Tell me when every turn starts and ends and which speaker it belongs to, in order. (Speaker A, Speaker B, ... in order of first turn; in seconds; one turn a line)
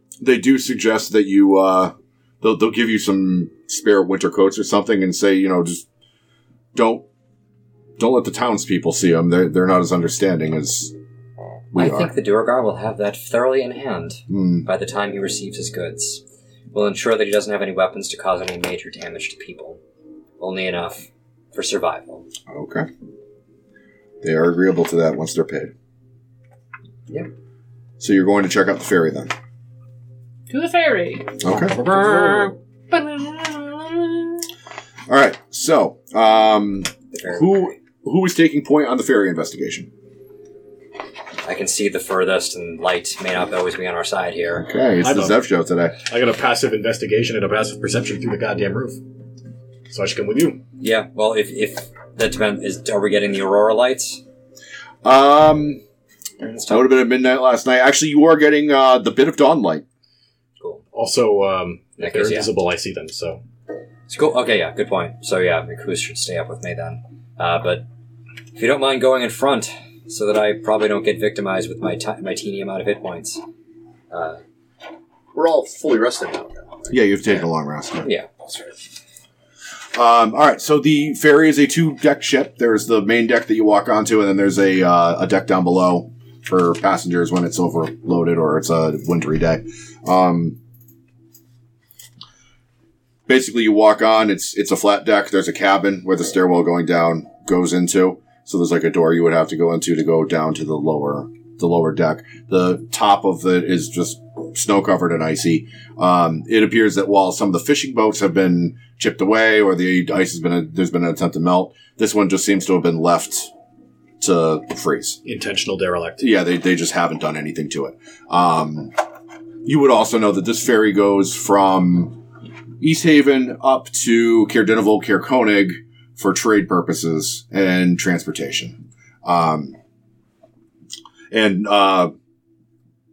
Speaker A: 0.2-5.9
Speaker A: 6.7-7.0
Speaker A: 8.0-10.9
Speaker A: 11.7-12.1
Speaker B: 11.8-19.8
Speaker A: 14.3-14.7
Speaker B: 20.4-22.3
Speaker A: 22.5-22.9
Speaker A: 24.2-25.7
Speaker A: 28.0-29.3
Speaker C: 30.5-34.3
Speaker A: 31.4-31.9
Speaker A: 35.1-39.9
Speaker B: 37.1-37.7
Speaker B: 41.4-44.7
Speaker A: 44.6-46.0
Speaker D: 45.0-45.4
Speaker D: 46.0-49.0
Speaker D: 49.9-50.6
Speaker B: 50.8-54.2
Speaker A: 55.0-55.8
Speaker B: 56.4-56.9
Speaker A: 56.7-59.8
Speaker B: 60.6-60.8
Speaker D: 60.9-63.4
Speaker B: 62.0-62.5
Speaker B: 64.1-67.9
Speaker B: 68.5-73.4
Speaker B: 74.1-74.4
Speaker E: 75.3-77.3
Speaker A: 76.9-78.1
Speaker B: 78.0-78.3
Speaker E: 78.5-78.7
Speaker A: 79.9-90.6
Speaker A: 93.3-113.5
Speaker A: 114.2-115.2
Speaker D: 115.2-116.3
Speaker A: 116.2-118.9
Speaker A: 119.6-122.2
Speaker A: 122.8-129.8
Speaker A: 131.3-132.1